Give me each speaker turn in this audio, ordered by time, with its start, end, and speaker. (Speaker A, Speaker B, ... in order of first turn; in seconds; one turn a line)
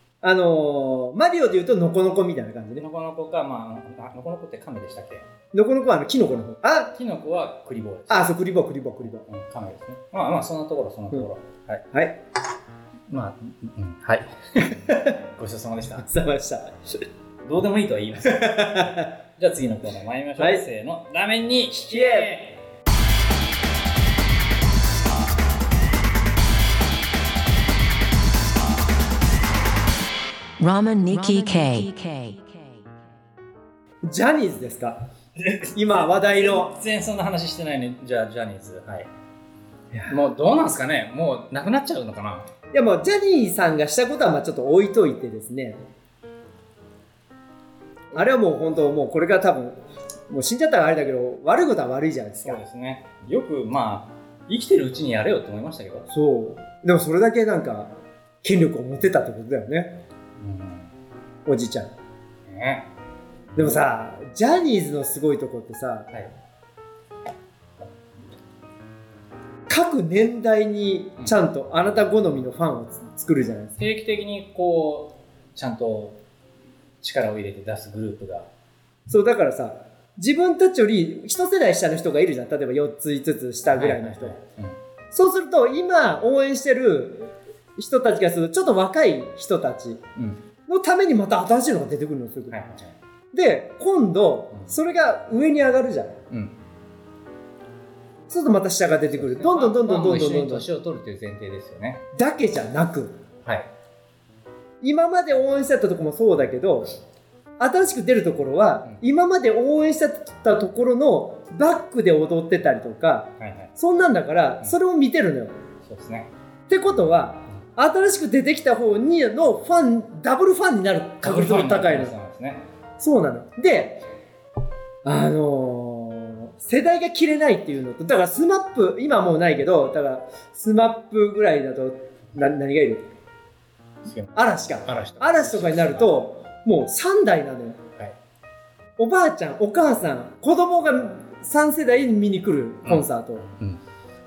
Speaker A: 0.2-2.9
Speaker B: 2.8-5.3
Speaker A: 5.5-7.0
Speaker B: 7.0-8.3
Speaker A: 8.1-9.3
Speaker B: 9.3-11.8
Speaker A: 11.9-12.2
Speaker B: 13.1-16.1
Speaker A: 16.0-16.8
Speaker B: 17.4-22.6
Speaker A: 18.3-19.1
Speaker A: 20.4-20.6
Speaker A: 21.9-22.3
Speaker C: 30.6-32.8
Speaker A: 34.0-35.0
Speaker B: 35.4-39.1
Speaker A: 35.7-36.7
Speaker A: 39.9-40.2
Speaker B: 40.1-42.5
Speaker A: 42.7-45.8
Speaker A: 48.1-49.8
Speaker A: 50.3-52.6
Speaker B: 52.4-56.1
Speaker A: 56.1-57.9
Speaker A: 58.4-60.0
Speaker B: 60.4-60.9
Speaker A: 61.5-61.9
Speaker B: 62.5-62.9
Speaker B: 63.5-63.9
Speaker A: 63.6-66.1
Speaker A: 69.7-73.8
Speaker B: 73.8-76.2
Speaker B: 77.0-78.5
Speaker A: 79.1-84.4
Speaker B: 83.7-84.8
Speaker A: 85.1-90.0
Speaker B: 90.2-90.4
Speaker A: 90.7-92.6
Speaker B: 92.5-93.0
Speaker A: 93.3-96.2
Speaker B: 96.3-96.6
Speaker A: 98.3-100.7
Speaker B: 99.1-102.0
Speaker A: 102.1-103.2
Speaker A: 104.8-106.9
Speaker A: 107.6-115.5
Speaker B: 113.4-113.7
Speaker B: 115.8-116.3
Speaker A: 116.7-122.1
Speaker B: 121.2-122.7
Speaker A: 123.0-124.0
Speaker A: 125.0-133.1
Speaker B: 134.1-136.1
Speaker A: 134.4-137.8
Speaker A: 139.0-143.5